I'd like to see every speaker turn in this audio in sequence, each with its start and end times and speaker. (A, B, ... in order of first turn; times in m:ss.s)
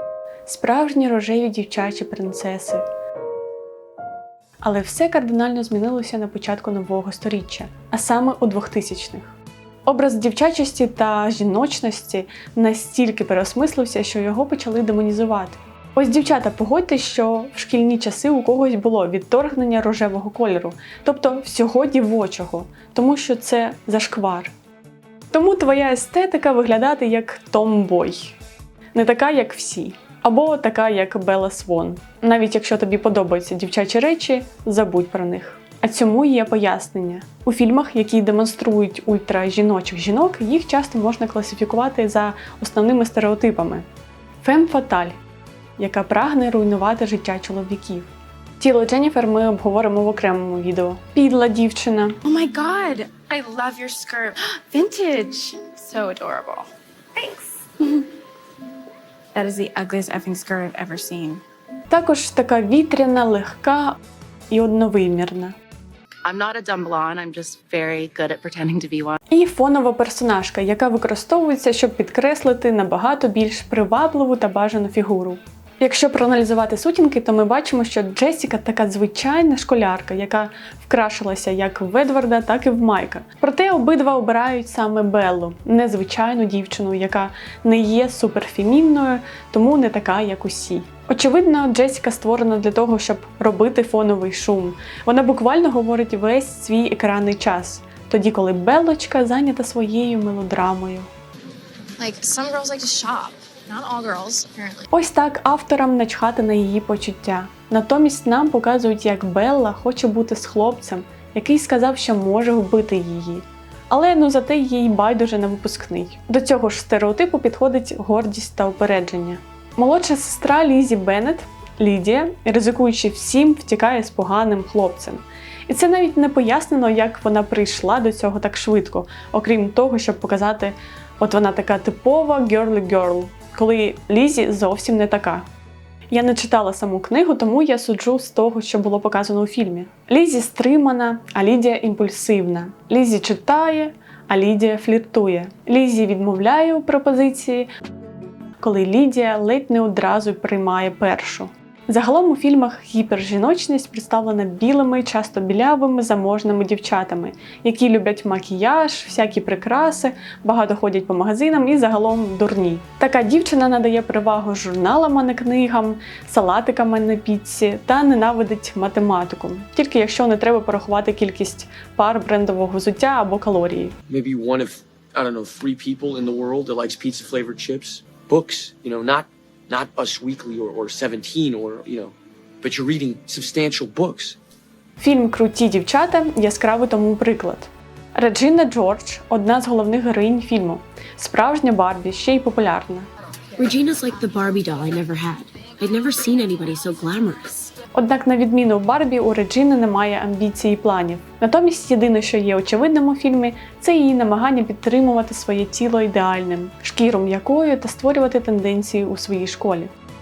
0:00.4-0:02.8 A
0:04.6-0:09.4 A
0:09.9-0:24.5 A
0:25.3-0:28.4 A
0:28.9-0:43.8 A
0:44.4-0:45.2 A
0:45.8-0:52.2 A
0:52.2-0:58.1 B
0:59.3-1:01.4 B
1:01.9-1:04.0 A
1:04.5-1:05.5 A
1:06.2-1:09.2 C
1:09.3-1:41.1 A
1:42.0-1:44.9 B
1:44.9-2:15.4 A
2:16.1-2:27.7 A
2:28.6-2:53.9 A
2:54.1-3:04.4 D
3:05.0-3:13.1 A
3:13.6-3:17.7 E
3:17.9-3:29.9 A